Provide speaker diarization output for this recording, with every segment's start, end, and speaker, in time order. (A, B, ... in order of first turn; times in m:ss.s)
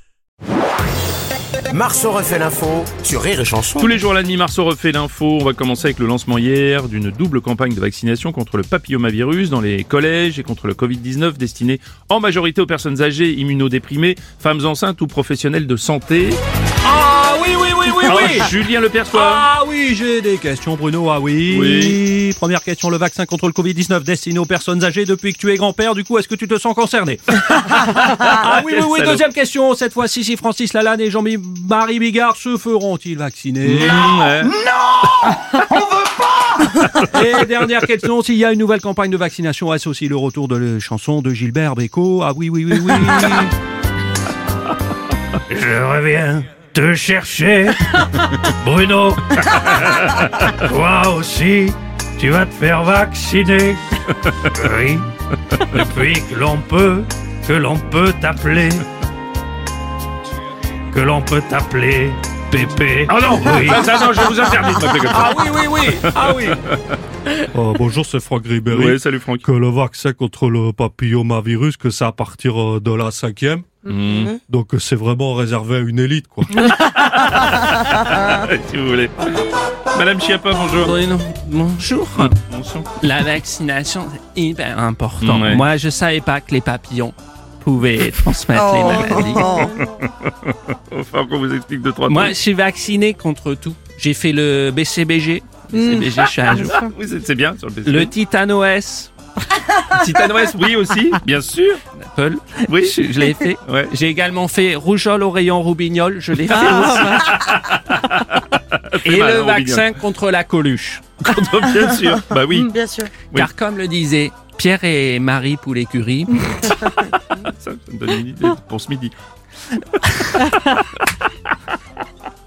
0:01.7-0:03.9 A
0:03.8-0:16.4 B
0:16.8-0:18.6 C
0:18.0-0:19.5 B
0:19.1-0:34.0 C
0:21.5-0:22.0 B
0:28.1-0:29.2 B
0:33.6-0:34.6 B
0:37.1-0:43.5 C
0:45.5-0:49.8 D
0:50.6-0:53.8 D
0:54.5-0:55.0 D
0:55.7-0:58.8 D
1:00.9-1:03.9 D
1:03.1-1:06.8 B
1:05.0-1:06.5 C
1:07.5-1:16.7 E
1:08.7-1:09.4 B
1:13.8-1:14.4 B
1:16.6-1:20.9 B
1:20.8-1:22.4 F
1:22.2-1:22.9 B
1:23.0-1:29.6 F
1:25.2-1:25.6 B
1:28.6-1:29.8 D
1:29.4-1:32.4 B
1:32.0-1:36.9 F
1:35.7-1:36.0 D
1:36.5-1:38.1 B
1:37.8-1:39.1 F
1:39.9-1:41.8 B
1:42.0-1:47.3 F
1:42.6-1:43.0 B
1:43.6-1:43.9 B
1:46.6-1:49.9 B
1:49.0-1:51.0 F
1:51.2-1:52.7 B
1:52.5-1:53.1 D
1:53.3-1:56.9 F
1:57.4-1:59.1 B
1:59.7-2:00.8 B